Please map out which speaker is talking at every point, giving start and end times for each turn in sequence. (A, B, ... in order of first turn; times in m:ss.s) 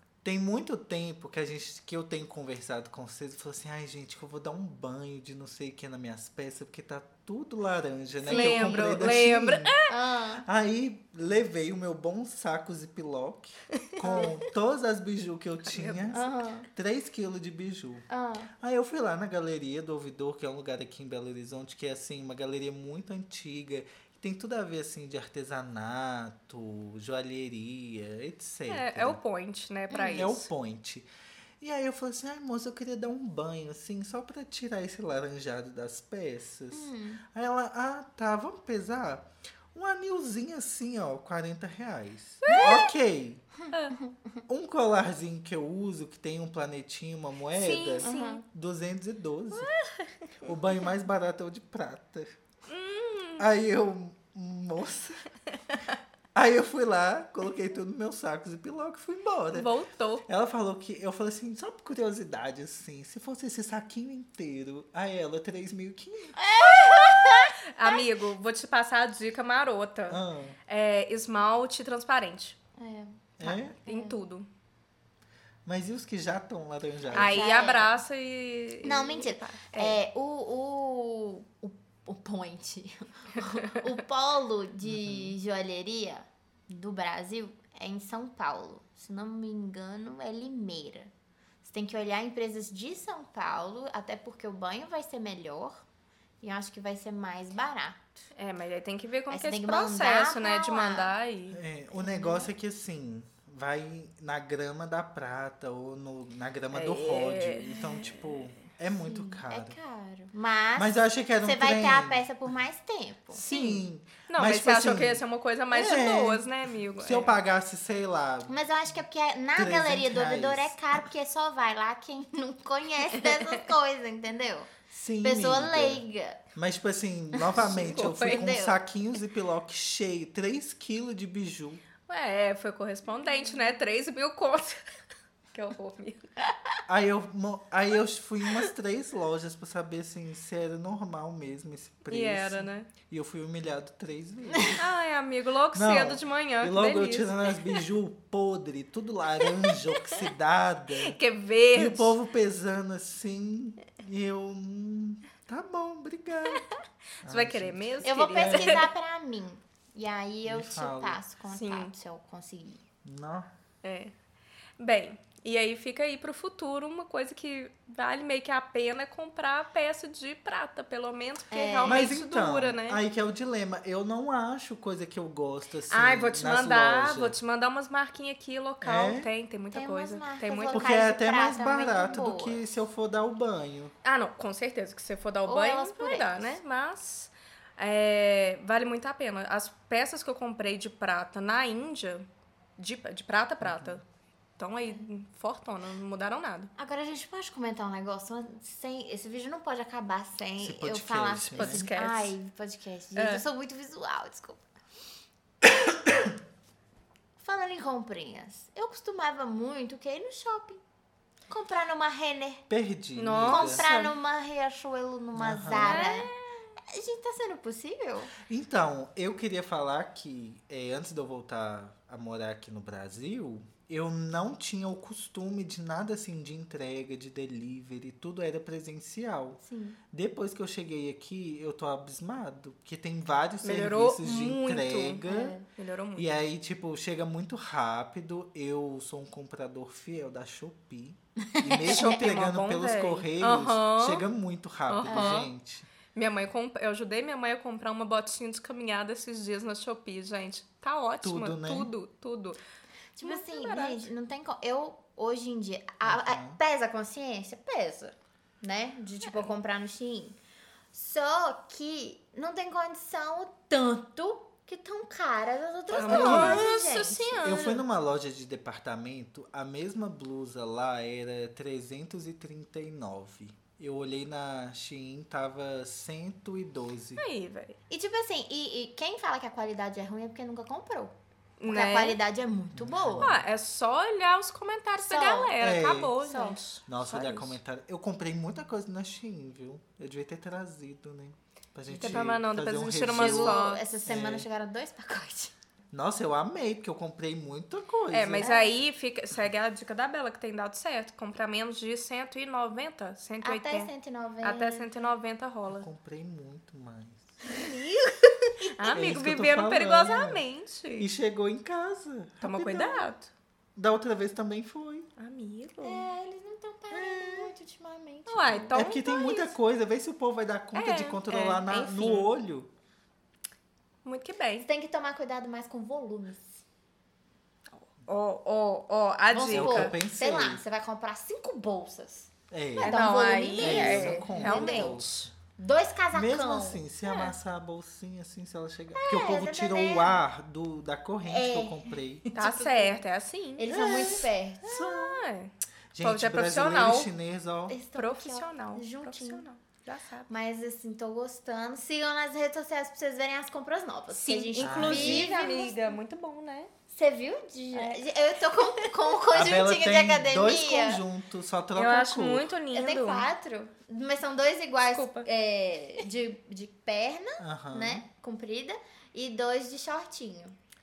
0:00.2-0:09.8 A
0:08.2-0:09.1 B
0:08.2-0:09.9 C
0:09.9-0:10.4 B
0:10.4-0:18.0 A
0:14.0-0:14.3 B
0:14.0-0:14.4 C
0:15.7-0:16.3 C
0:16.1-0:16.7 B
0:18.1-0:18.5 B
0:18.6-0:29.2 A
0:28.7-0:30.5 C
0:29.9-0:30.3 B
0:30.1-0:31.1 A
0:31.6-0:43.4 A
0:36.7-0:37.2 B
0:42.4-0:42.9 C
0:42.5-0:42.8 B
0:43.6-0:44.2 B
0:43.7-0:44.0 C
0:44.5-0:49.7 A
0:47.5-0:48.4 C
0:48.0-0:48.4 B
0:49.5-0:50.5 C
0:50.4-0:52.4 A
0:52.7-0:53.4 C
0:53.4-0:55.3 A
0:56.3-0:59.7 A
0:59.5-1:00.2 C
1:00.2-1:06.4 A
1:06.4-1:08.1 B
1:06.6-1:12.6 C
1:10.1-1:10.6 A
1:12.8-1:14.2 B
1:13.4-1:13.8 A
1:13.8-1:14.5 C
1:15.6-1:17.4 A
1:17.1-1:18.0 B
1:17.1-1:20.0 C
1:18.8-1:31.1 B
1:23.4-1:23.8 C
1:24.8-1:25.3 A
1:31.6-1:35.8 B
1:36.4-1:38.1 B
1:38.3-1:41.6 C
1:39.3-1:41.1 B
1:41.5-1:49.8 A
1:41.9-1:42.5 B
1:46.7-1:48.5 C
1:49.0-1:53.4 B
1:50.8-1:52.2 A
1:53.3-1:57.3 C
1:53.5-1:58.6 A
1:58.5-2:06.4 B
1:59.5-2:01.0 A
2:04.9-2:06.0 A
2:06.5-2:11.8 A
2:07.3-2:08.8 B
2:07.6-2:08.5 C
2:12.1-2:14.8 C
2:15.5-2:16.3 C
2:16.9-2:24.8 A
2:22.1-2:22.9 C
2:24.8-2:27.8 C
2:25.7-2:31.2 A
2:31.0-2:32.2 C
2:31.7-2:36.7 A
2:37.2-2:38.9 A
2:37.2-2:38.9 C
2:38.0-2:42.8 B
2:40.4-2:41.2 A
2:41.5-2:41.9 C
2:43.0-2:43.5 A
2:43.8-2:44.1 C
2:44.8-2:53.0 C
2:51.5-2:52.2 B
2:51.8-2:57.4 A
2:55.9-3:00.9 C
2:58.8-2:59.3 A
2:59.7-3:02.6 B
3:00.7-3:03.9 A
3:04.0-3:12.2 C
3:05.4-3:06.6 B
3:12.8-3:14.0 C
3:13.6-3:14.0 A
3:14.6-3:16.7 C
3:16.8-3:24.6 B
3:20.6-3:21.9 A
3:21.6-3:22.3 C
3:23.2-3:23.4 C
3:27.4-3:30.8 B
3:31.5-3:32.6 B
3:32.7-3:33.8 A
3:33.2-3:34.1 C
3:33.5-3:38.3 B
3:35.3-3:36.0 A
3:35.7-3:36.5 C
3:38.5-3:49.6 A
3:49.6-3:50.0 B
3:50.1-3:55.6 A
3:53.6-3:56.3 C
3:55.3-3:55.6 B
3:56.2-4:05.9 A
4:01.5-4:02.2 B
4:01.9-4:04.2 C
4:04.9-4:05.5 C
4:05.1-4:05.5 B
4:06.1-4:12.6 C
4:11.2-4:11.9 A
4:13.1-4:20.4 B
4:13.2-4:14.1 C
4:16.0-4:16.6 A
4:20.9-4:27.6 B
4:25.9-4:27.8 C
4:26.0-4:26.7 A
4:27.4-4:37.2 A
4:37.2-4:37.8 C
4:37.9-4:43.4 B
4:41.6-4:42.2 C
4:42.7-4:43.4 A
4:43.2-4:47.6 C
4:45.0-4:45.6 B
4:45.6-4:46.1 A
4:46.2-4:46.6 B
4:46.9-4:54.5 A
4:51.9-4:52.3 B
4:52.0-4:53.8 C
4:53.1-4:55.5 B
4:55.9-4:58.5 A
4:58.1-5:03.9 C
4:58.4-4:58.8 B
5:03.4-5:04.9 B
5:04.4-5:05.9 C
5:05.7-5:07.4 A
5:07.5-5:11.1 C
5:08.6-5:09.0 B
5:08.9-5:10.4 A
5:11.0-5:13.1 A
5:12.4-5:13.3 C
5:13.8-5:15.1 A
5:15.2-5:16.1 C
5:15.8-5:18.8 B
5:18.3-5:19.5 C
5:18.7-5:22.7 A
5:20.7-5:22.3 C
5:24.0-5:24.6 C
5:24.6-5:26.6 B
5:27.7-5:29.9 C
5:29.3-5:35.0 B
5:29.5-5:30.6 A
5:32.5-5:33.0 A
5:32.8-5:35.3 C
5:33.6-5:35.3 A
5:35.6-5:36.8 B
5:36.1-5:42.3 A
5:37.0-5:37.3 C
5:38.9-5:40.2 B
5:41.2-5:43.0 B
5:42.3-5:47.1 C
5:43.6-5:44.8 B
5:44.6-5:45.2 A
5:45.9-5:47.8 A
5:47.7-5:49.4 B
5:47.9-5:50.3 C
5:50.3-5:56.0 B
5:54.1-5:56.7 C
5:54.6-5:55.3 A
5:56.9-6:01.0 B
5:57.7-5:58.0 C
5:59.3-6:02.5 A
6:01.7-6:03.3 C
6:02.7-6:10.6 B
6:04.9-6:05.3 C
6:07.4-6:08.0 A